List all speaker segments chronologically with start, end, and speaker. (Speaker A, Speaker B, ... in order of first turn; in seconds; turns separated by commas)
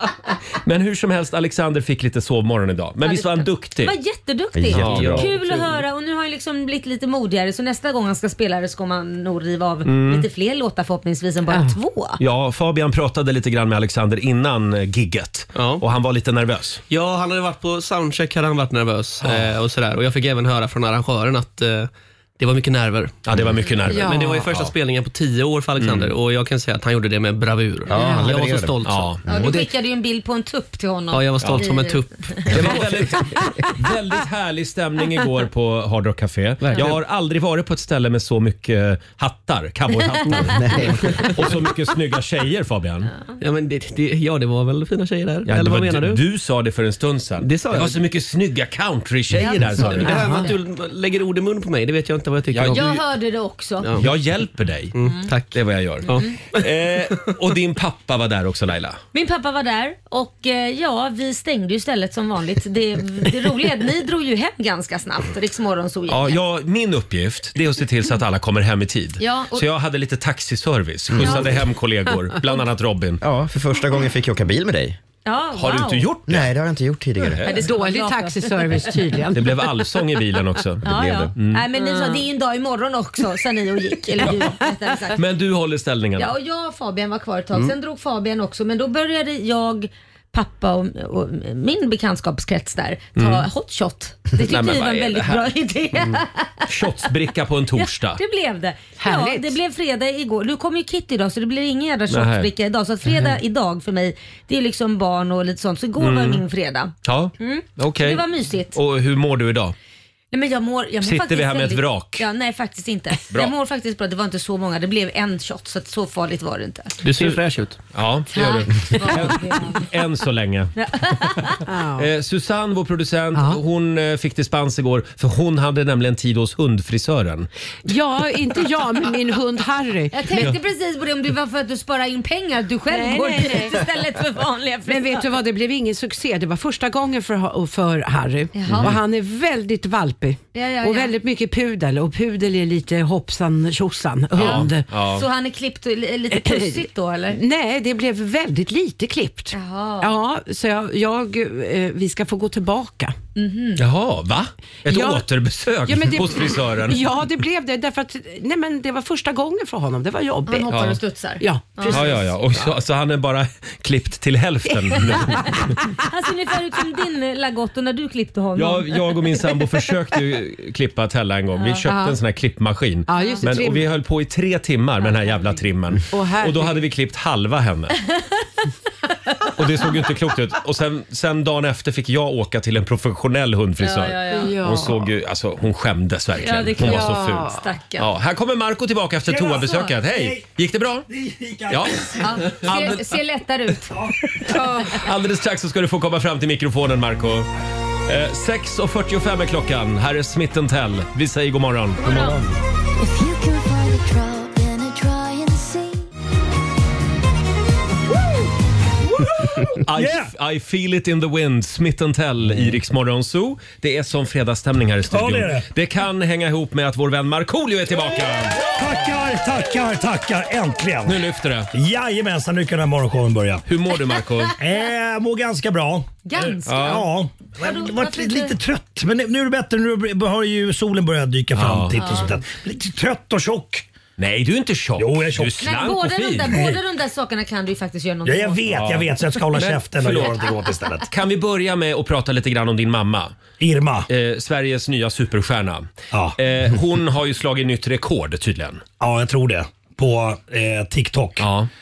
Speaker A: 0.6-3.9, Speaker B: 3.0-12.2, Speaker C: 4.7-5.1, Speaker A: 4.7-5.3, Speaker D: 4.8-5.7, Speaker A: 9.8-10.2, Speaker E: 11.5-11.8, Speaker A: 12.2-16.8, Speaker D: 15.5-15.8, Speaker D: 16.9-23.4, Speaker A: 23.2-24.7, Speaker E: 23.9-24.5, Speaker D: 23.9-29.6, Speaker A: 25.8-26.1, Speaker C: 27.9-28.8, Speaker E: 28.0-28.3, Speaker A: 28.8-29.2, Speaker B: 29.2-32.5, Speaker D: 31.1-32.8, Speaker A: 31.4-31.6, Speaker A: 32.5-43.1, Speaker D: 36.6-37.0, Speaker C: 40.5-41.1, Speaker D: 43.4-46.2, Speaker A: 45.5-50.4, Speaker D: 47.4-48.0, Speaker B: 49.3-50.5, Speaker D: 49.7-53.0, Speaker E: 50.0-50.4, Speaker A: 52.5-52.8, Speaker B: 52.7-53.9, Speaker D: 53.8-54.1, Speaker A: 54.0-54.9, Speaker D: 54.9-56.6, Speaker B: 55.0-55.3, Speaker A: 55.5-59.0, Speaker B: 59.1-66.4, Speaker A: 66.1-73.2, Speaker B: 69.2-69.7, Speaker B: 71.2-71.6, Speaker C: 73.2-75.0, Speaker B: 75.2-76.1, Speaker A: 75.5-76.5, Speaker C: 76.3-77.4, Speaker B: 77.4-78.9, Speaker E: 77.4-79.7, Speaker A: 79.3-81.7, Speaker B: 80.8-85.2, Speaker C: 80.8-81.3, Speaker E: 81.8-82.2, Speaker A: 85.1-86.3, Speaker B: 86.2-96.7, Speaker A: 93.2-93.5, Speaker A: 94.4-95.5, Speaker A: 96.7-98.2, Speaker B: 97.8-108.8, Speaker E: 99.0-99.6, Speaker A: 102.1-102.5, Speaker A: 106.0-106.4, Speaker A: 107.0-109.7, Speaker B: 110.3-117.0, Speaker A: 111.0-112.2, Speaker D: 117.0-117.8, Speaker A: 117.9-120.7, Speaker B: 118.3-119.8, Speaker B: 120.8-121.6, Speaker E: 121.7-122.1, Speaker A: 122.0-127.5, Speaker E: 123.3-123.6, Speaker E: 127.8-130.5, Speaker B: 130.1-135.3, Speaker E: 132.9-133.8, Speaker E: 134.9-144.8, Speaker B: 138.5-138.9, Speaker A: 138.7-139.0, Speaker B: 140.5-141.1, Speaker A: 144.3-145.2, Speaker B: 144.3-147.4, Speaker E: 146.3-153.2, Speaker B: 149.5-150.2, Speaker B: 153.3-153.8, Speaker A: 153.8-157.1, Speaker E: 154.9-155.2, Speaker E: 155.8-162.7, Speaker B: 160.5-162.2, Speaker A: 160.7-161.0, Speaker A: 161.9-165.7, Speaker B: 165.9-169.0, Speaker A: 168.6-178.0, Speaker B: 171.6-171.9, Speaker E: 171.9-172.2, Speaker E: 173.1-173.9, Speaker B: 173.1-173.5, Speaker E: 176.1-176.8, Speaker A: 179.6-191.1, Speaker B: 183.8-184.6, Speaker E: 184.3-185.1, Speaker B: 186.4-188.1, Speaker E: 186.8-187.6, Speaker F: 189.3-190.4, Speaker F: 191.1-192.5, Speaker A: 191.7-193.0, Speaker B: 192.2-194.7, Speaker F: 193.9-194.3, Speaker E: 194.5-195.0, Speaker A: 194.9-197.5, Speaker A: 198.1-202.3, Speaker B: 202.0-202.3, Speaker G: 203.0-206.1, Speaker F: 209.2-210.3, Speaker A: 209.8-218.6, Speaker F: 215.1-215.7, Speaker F: 218.6-223.6, Speaker A: 221.0-221.7, Speaker A: 223.7-224.6, Speaker F: 224.6-233.8, Speaker B: 226.2-227.1, Speaker A: 226.7-227.1, Speaker B: 227.6-228.5, Speaker A: 231.5-232.2, Speaker B: 231.9-232.3, Speaker A: 234.2-236.7, Speaker F: 235.0-235.7, Speaker B: 235.6-238.6, Speaker F: 236.5-236.8, Speaker F: 238.2-241.1, Speaker A: 238.7-240.4, Speaker A: 241.1-243.3, Speaker F: 243.6-244.1, Speaker A: 244.1-248.8, Speaker F: 246.1-246.4, Speaker F: 249.0-251.4, Speaker A: 251.4-251.7